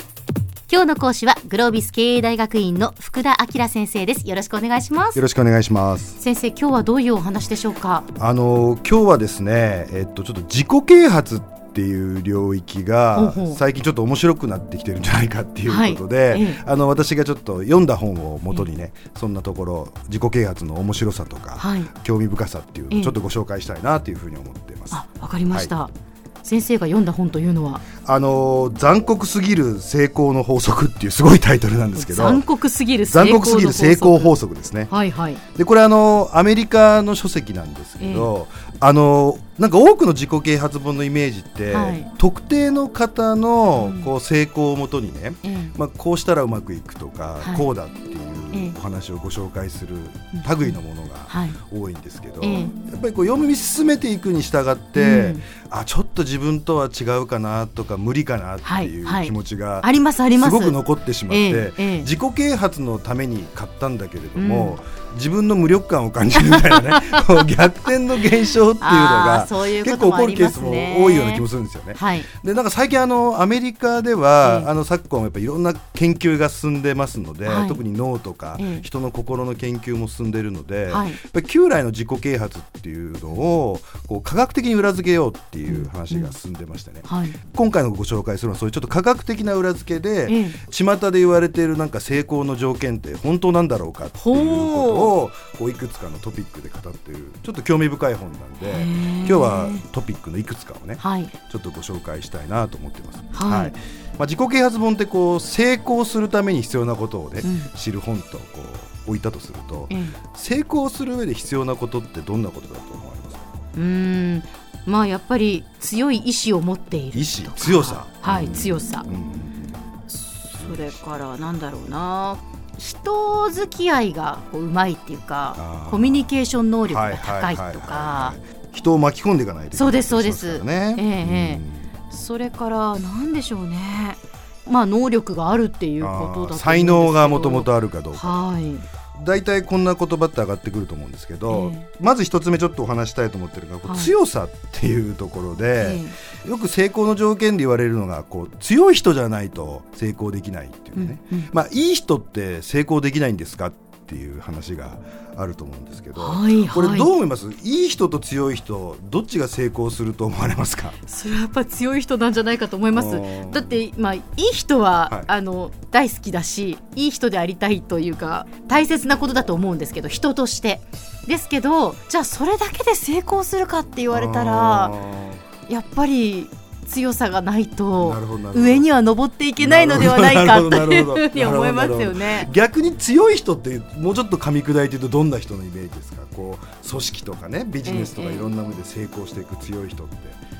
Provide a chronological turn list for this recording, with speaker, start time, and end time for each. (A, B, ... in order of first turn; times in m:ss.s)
0:00.7-0:05.2 A
0:05.1-0:06.2 B
0:06.2-0:08.1 A
0:08.1-0:25.7 B
0:13.1-0:13.6 A
0:15.6-0:16.6 A
0:21.6-0:21.9 A
0:22.9-0:23.2 A
0:24.9-0:27.8 A
0:28.0-0:32.4 B
0:32.0-0:34.4 A
0:33.0-0:34.9 B
0:34.9-0:35.4 A
0:35.5-1:53.5 B
0:38.0-0:38.3 A
0:41.7-0:42.1 A
0:43.8-0:44.1 A
0:45.4-0:45.7 A
0:48.5-0:48.8 A
0:50.3-0:50.8 A
0:51.3-0:51.6 A
0:52.4-0:52.7 A
0:54.9-0:55.4 A
0:58.6-1:00.8 A
1:01.3-1:02.1 A
1:04.4-1:04.8 A
1:06.4-1:07.4 A
1:08.8-1:12.3 A
1:14.4-1:14.7 A
1:17.4-1:17.8 A
1:18.6-1:18.8 A
1:20.9-1:21.2 A
1:25.7-1:26.3 A
1:27.0-1:27.4 A
1:30.3-1:30.6 A
1:34.2-1:35.1 A
1:38.6-1:39.8 A
1:41.0-1:41.3 A
1:43.3-1:43.7 A
1:47.4-1:47.7 A
1:49.9-1:50.2 A
1:53.7-1:59.0 A
1:57.1-1:59.9 B
2:00.1-2:08.4 A
2:00.5-2:01.0 B
2:05.6-2:06.3 B
2:06.9-2:11.9 B
2:09.7-2:18.8 A
2:16.0-2:18.4 B
2:19.2-2:41.0 B
2:21.5-2:21.8 A
2:23.8-2:24.1 A
2:25.8-2:26.1 A
2:31.0-2:31.5 A
2:36.2-2:37.1 A
2:41.1-2:55.0 A
2:42.9-2:43.8 B
2:54.1-2:55.4 B
2:55.7-3:02.5 A
2:58.0-2:58.9 B
2:59.6-3:10.4 B
3:07.8-3:08.5 A